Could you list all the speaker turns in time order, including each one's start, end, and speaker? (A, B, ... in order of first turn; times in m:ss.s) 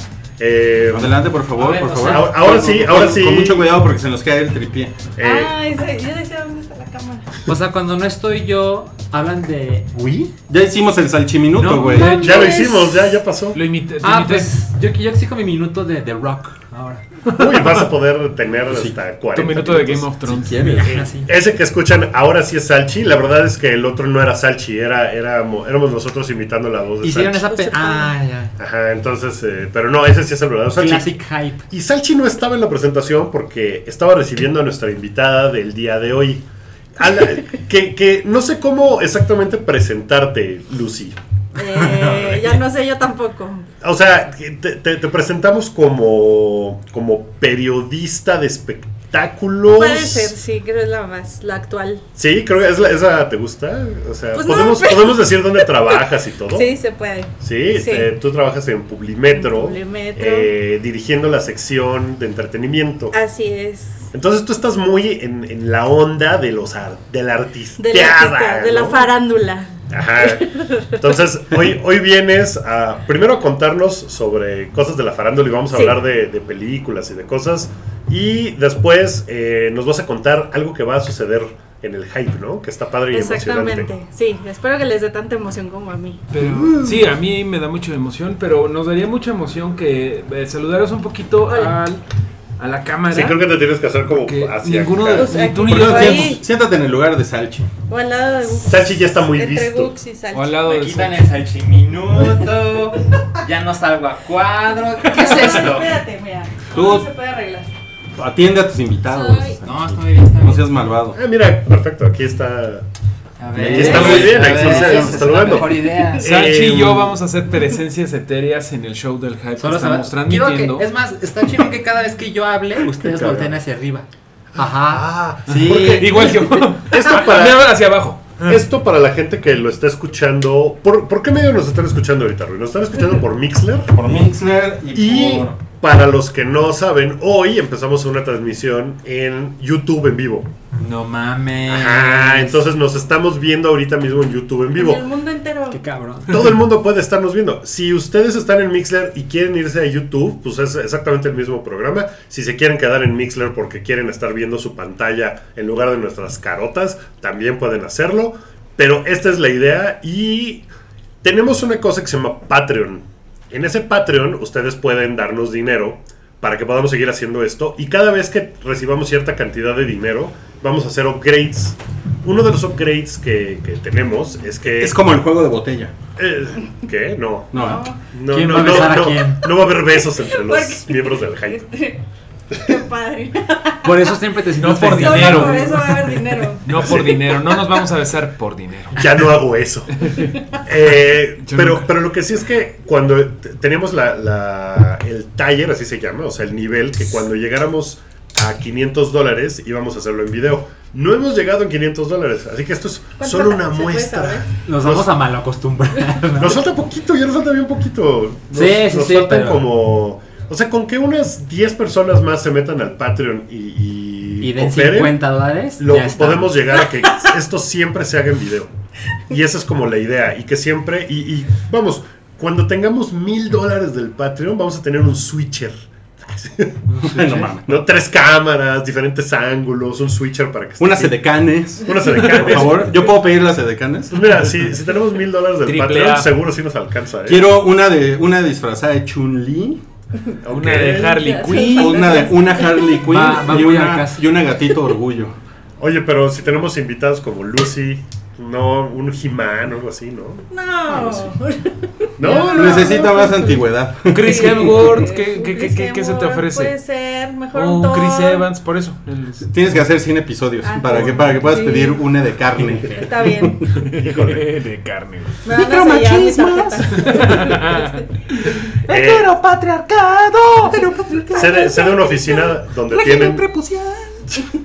0:00.4-0:01.2 A
0:00.9-0:05.0 B
0:01.6-0:02.4 C
0:02.0-0:03.7 A
0:05.2-0:05.6 A
0:05.2-0:07.3 D
0:07.5-0:10.3 C
0:10.5-0:12.2 B
0:11.6-0:12.6 C
0:12.0-0:13.0 D
0:12.2-0:13.6 A
0:13.5-0:14.5 E
0:14.0-0:17.0 C
0:17.3-0:17.9 E
0:17.4-0:20.1 A
0:18.7-0:19.0 B
0:19.3-0:20.8 E
0:20.2-0:21.1 B
0:20.6-0:21.3 C
0:20.9-0:27.5 A
0:27.0-0:28.5 C
0:27.5-0:28.1 D
0:28.6-0:31.1 A
0:30.8-0:31.6 C
0:31.7-0:36.4 A
0:37.0-0:41.2 A
0:41.5-0:43.7 D
0:42.0-0:42.6 A
0:43.8-0:50.3 A
0:49.7-0:52.1 D
0:52.2-0:56.7 A
0:54.3-0:58.1 D
0:57.4-1:03.2 A
0:59.3-1:00.5 D
1:03.1-1:04.1 D
1:04.1-1:09.1 A
1:07.8-1:11.0 D
1:09.9-1:23.9 A
1:23.1-1:26.2 D
1:26.3-1:32.0 E
1:26.4-1:27.1 A
1:31.5-1:31.8 D
1:32.6-1:33.4 E
1:33.1-1:35.4 A
1:34.1-1:36.4 E
1:35.2-1:36.4 D
1:35.7-1:37.7 B
1:37.9-1:40.6 D
1:38.7-1:40.0 A
1:40.3-1:41.2 E
1:40.6-1:46.0 C
1:45.1-1:47.7 D
1:46.7-1:47.1 B
1:48.2-1:51.2 B
1:49.1-1:49.6 D
1:49.6-1:50.6 C
1:51.2-1:52.8 A
1:53.4-1:56.3 C
1:53.5-1:55.4 B
1:53.6-1:57.2 A
1:53.8-1:54.2 D
1:53.9-1:54.4 E
1:56.2-2:00.8 E
1:59.6-2:06.0 C
2:02.9-2:03.6 A
2:04.6-2:07.7 A
2:05.5-2:08.6 E
2:05.6-2:06.0 B
2:08.5-2:14.3 A
2:13.9-2:15.6 B
2:14.9-2:20.5 A
2:20.8-2:22.6 C
2:21.7-2:25.1 A
2:24.8-2:25.8 D
2:25.7-2:26.5 C
2:26.3-2:40.7 A
2:41.2-2:55.0 A
2:54.6-2:55.9 B
2:56.2-3:01.7 A
2:57.5-2:57.9 B
2:57.6-2:58.0 D
2:58.3-2:59.6 C
2:59.9-3:02.0 D
3:02.6-3:04.2 D
3:03.8-3:05.8 C
3:04.6-3:06.0 E
3:04.8-3:07.4 D
3:06.6-3:09.3 E
3:06.7-3:07.3 A
3:08.9-3:25.2 A
3:10.0-3:10.3 E
3:11.4-3:11.9 E
3:23.2-3:24.5 D
3:24.6-3:26.6 C
3:26.4-3:38.7 A
3:28.5-3:29.7 C
3:34.4-3:36.6 C
3:39.3-3:53.1 A
3:46.9-3:47.4 C
3:47.0-3:47.8 B
3:50.8-3:54.5 B
3:52.2-3:52.8 E
3:54.1-3:57.6 A
3:55.6-3:56.3 E
3:57.3-3:59.8 B
4:00.4-4:01.3 A
4:00.5-4:02.3 E
4:01.2-4:03.0 D
4:01.5-4:05.4 B
4:03.0-4:04.2 C
4:05.8-4:10.5 A
4:10.5-4:13.6 D
4:12.2-4:13.2 A
4:12.5-4:15.0 B
4:14.1-4:16.7 E
4:14.2-4:18.5 D
4:17.5-4:19.6 E
4:19.5-4:23.5 B
4:20.6-4:22.0 D
4:21.0-4:21.3 E
4:22.6-4:23.1 C
4:22.9-4:23.6 D
4:23.7-4:25.4 E
4:23.8-4:24.5 A
4:25.4-4:28.1 D
4:25.5-4:27.2 B
4:27.0-4:28.8 E
4:28.9-4:29.3 A
4:28.9-4:32.0 B
4:30.7-4:32.5 D
4:31.3-4:33.5 A
4:32.9-4:34.2 B